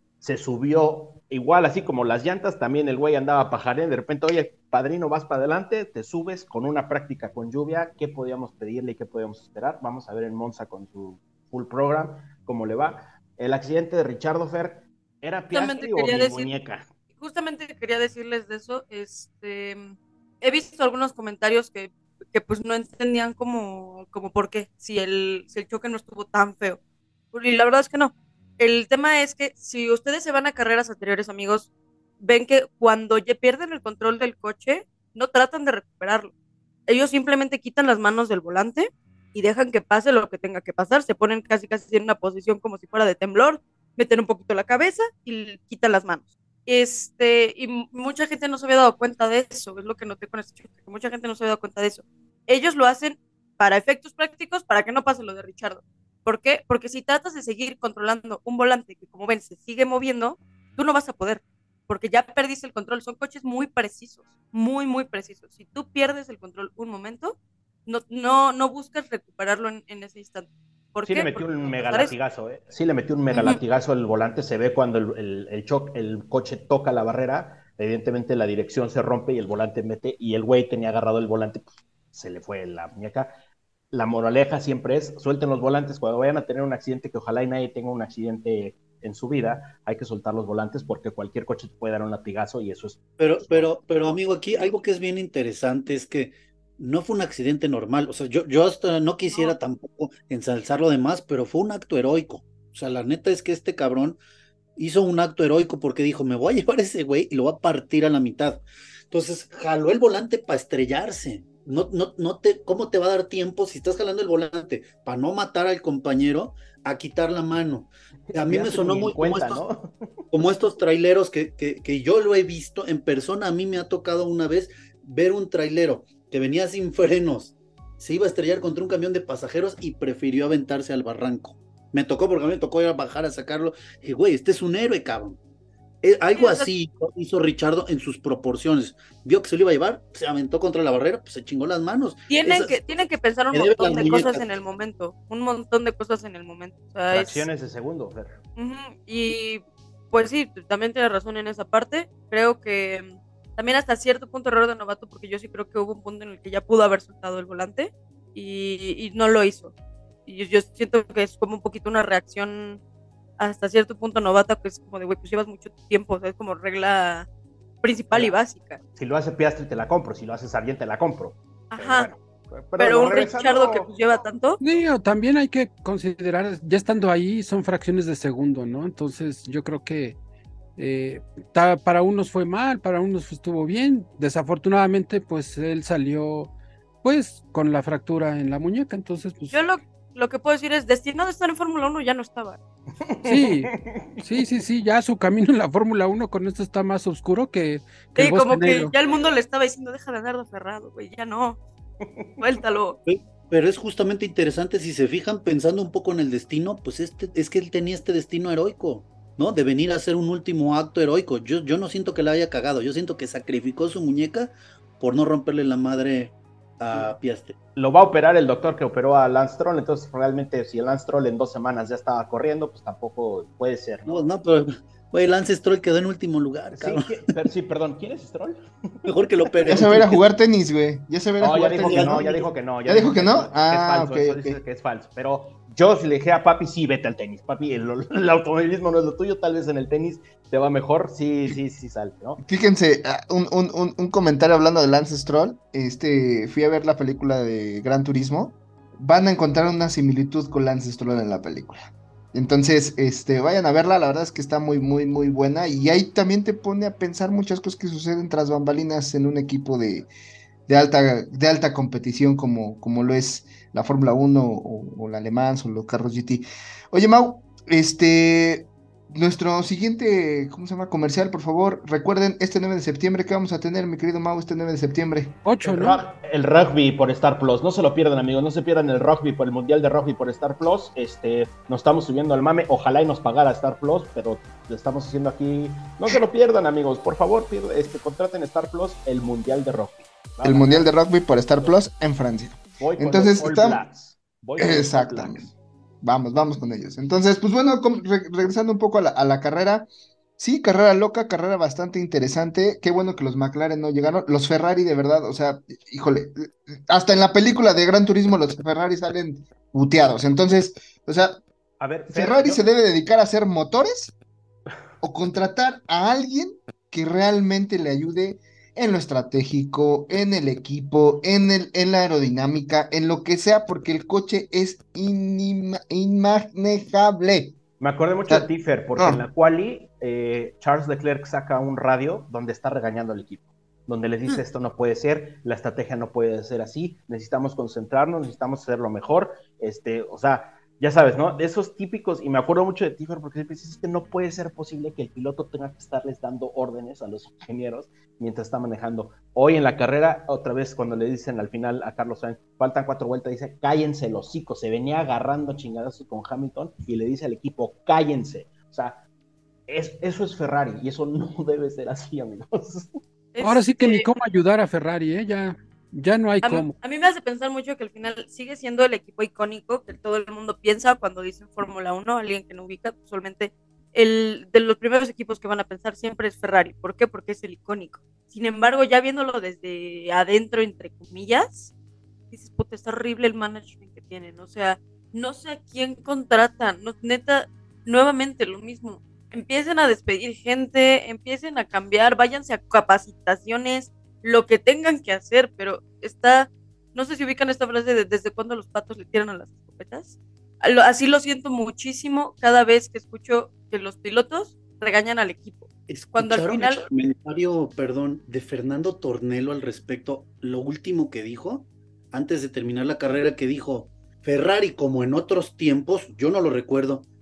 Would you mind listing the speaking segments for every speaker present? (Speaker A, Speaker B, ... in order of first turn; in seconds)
Speaker A: 0.2-16.9, 71.0-83.3, 83.9-94.2, 118.3-120.1, 147.1-148.4, 168.9-173.9, 193.0-194.4, 202.0-202.3, 217.8-224.3, 226.8-229.0, 229.6-229.9, 231.4-242.4, 275.6-290.9, 292.8-295.5, 311.8-312.6, 327.8-359.0, 359.7-362.9
Speaker B: 15.5-16.5, 17.2-26.8, 27.3-36.3, 36.9-72.1, 73.3-73.6, 136.3-136.7, 142.3-147.5, 148.6-159.7, 160.2-162.8, 163.4-167.3, 167.8-168.8, 171.7-172.1, 172.8-174.6, 189.5-192.6, 198.2-201.6, 202.4-203.0, 363.3-364.0, 366.4-381.7, 382.3-406.8
Speaker C: 93.2-104.2, 104.8-119.6, 120.3-135.4, 136.0-142.9, 143.5-144.4, 203.1-217.6, 224.1-227.1, 229.0-230.2, 231.8-232.2, 405.9-417.1
Speaker D: 174.6-180.2, 180.8-186.5, 187.0-189.6, 193.2-198.9, 275.4-276.0, 363.4-366.7
Speaker E: 229.7-234.6, 242.4-260.1, 260.7-275.4, 290.4-293.8, 294.6-295.5, 296.0-311.4, 312.1-314.1, 315.0-327.6, 328.3-329.2